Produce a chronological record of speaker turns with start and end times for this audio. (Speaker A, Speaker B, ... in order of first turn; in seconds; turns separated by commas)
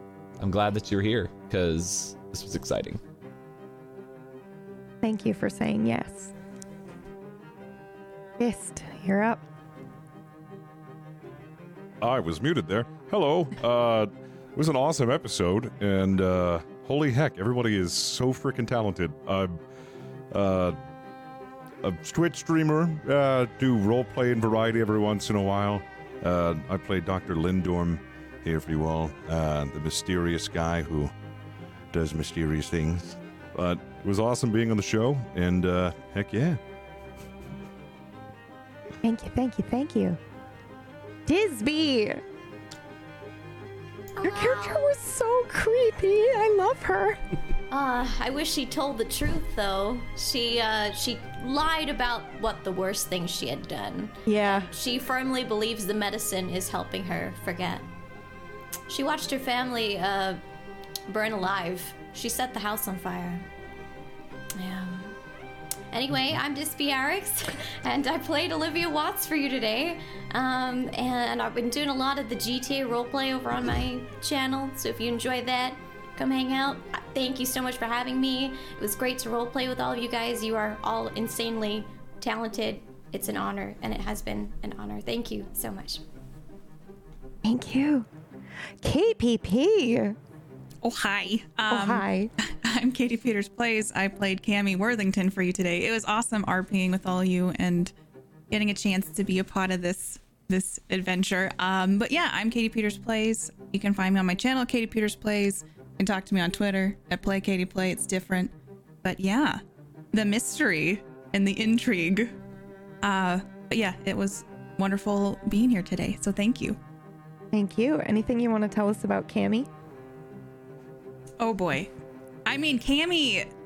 Speaker A: 0.4-3.0, Speaker B: 5.0-6.3, Speaker B: 8.4-9.4, Speaker C: 12.0-19.6, Speaker C: 20.3-20.8, Speaker C: 21.8-31.1, Speaker C: 31.9-36.6, Speaker B: 39.0-40.2, Speaker B: 41.3-42.2, Speaker D: 44.2-44.8, Speaker B: 44.2-47.2, Speaker D: 47.7-57.8, Speaker B: 54.2-54.7, Speaker D: 58.9-60.4, Speaker D: 61.1-63.5, Speaker D: 64.5-65.2, Speaker D: 65.9-86.0, Speaker B: 87.4-88.1, Speaker B: 88.8-90.2, Speaker E: 90.8-97.9, Speaker B: 91.7-92.3, Speaker E: 98.5-108.5, Speaker E: 109.0-109.6, Speaker E: 110.1-112.3, Speaker E: 113.0-116.8, Speaker B: 117.5-119.7, Speaker E: 121.4-121.9, Speaker E: 122.5-123.5